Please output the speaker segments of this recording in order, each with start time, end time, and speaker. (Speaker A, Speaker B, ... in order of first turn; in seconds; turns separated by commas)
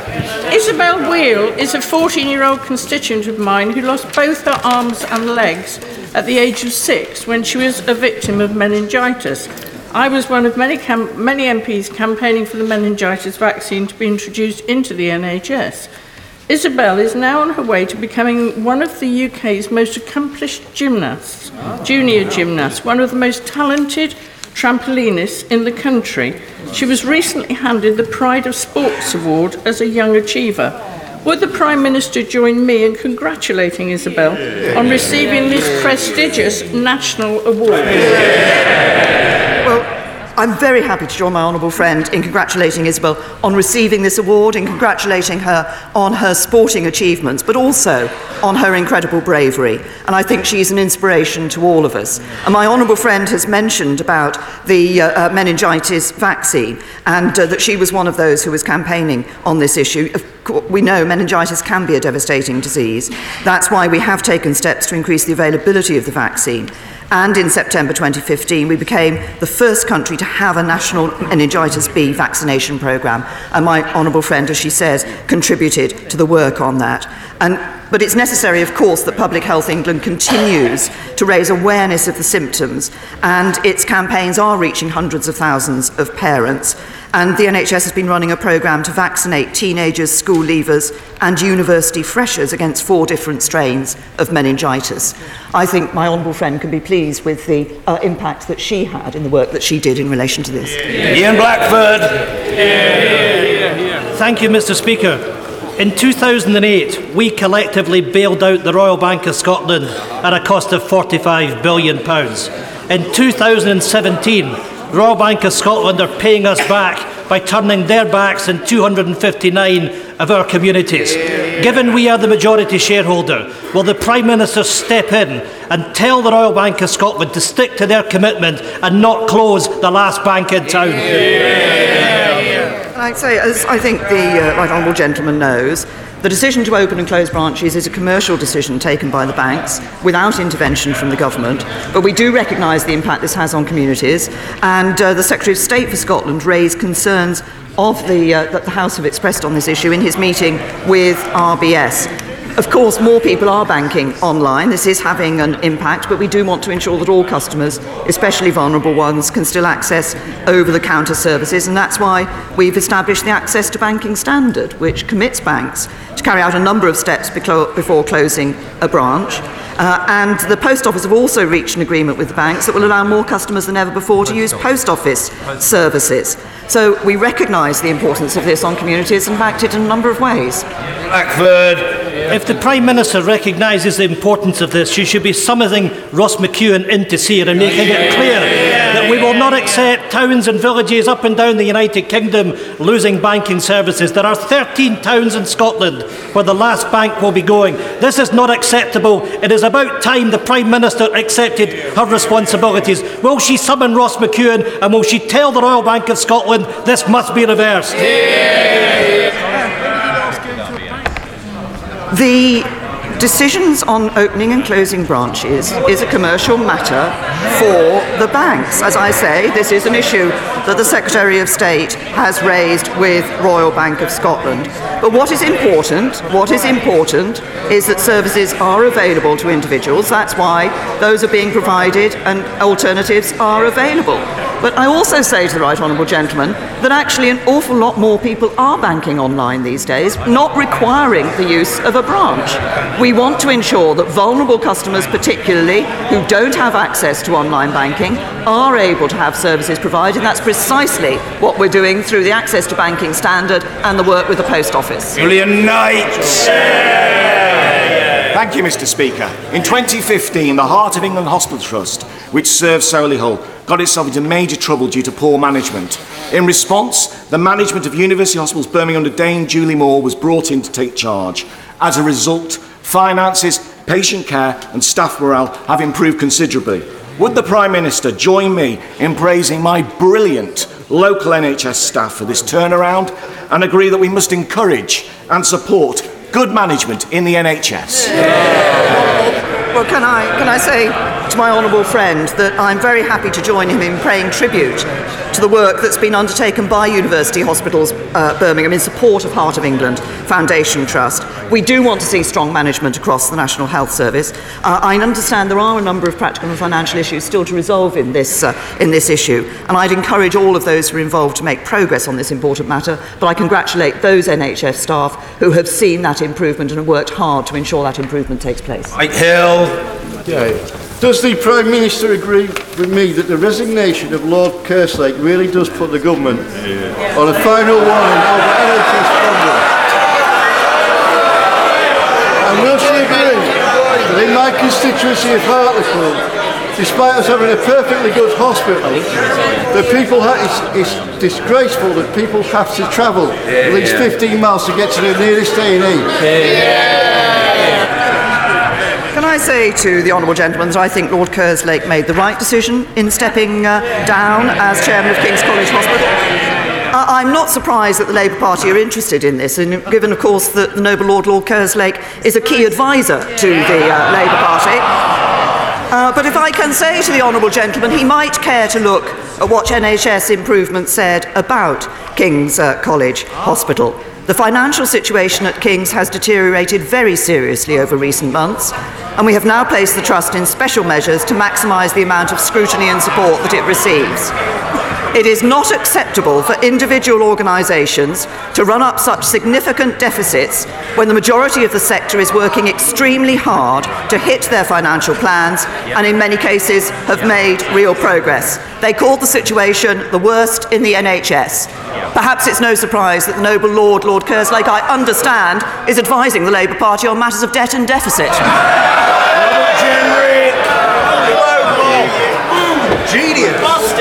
Speaker A: 0.5-15.9, Speaker A: 16.5-38.1, Speaker B: 39.6-100.8, Speaker C: 101.1-102.3, Speaker D: 104.1-131.2, Speaker B: 132.9-180.7, Speaker C: 181.1-181.9, Speaker D: 182.2-208.1, Speaker B: 212.1-255.2, Speaker C: 255.2-256.7, Speaker E: 258.3-288.1, Speaker B: 289.7-318.9, Speaker C: 318.9-319.8, Speaker F: 320.2-326.5, Speaker F: 327.1-329.7, Speaker F: 332.4-339.1, Speaker F: 339.7-346.7, Speaker B: 349.1-356.1, Speaker B: 356.9-364.9, Speaker B: 365.9-384.3, Speaker B: 385.1-408.4, Speaker C: 409.4-410.6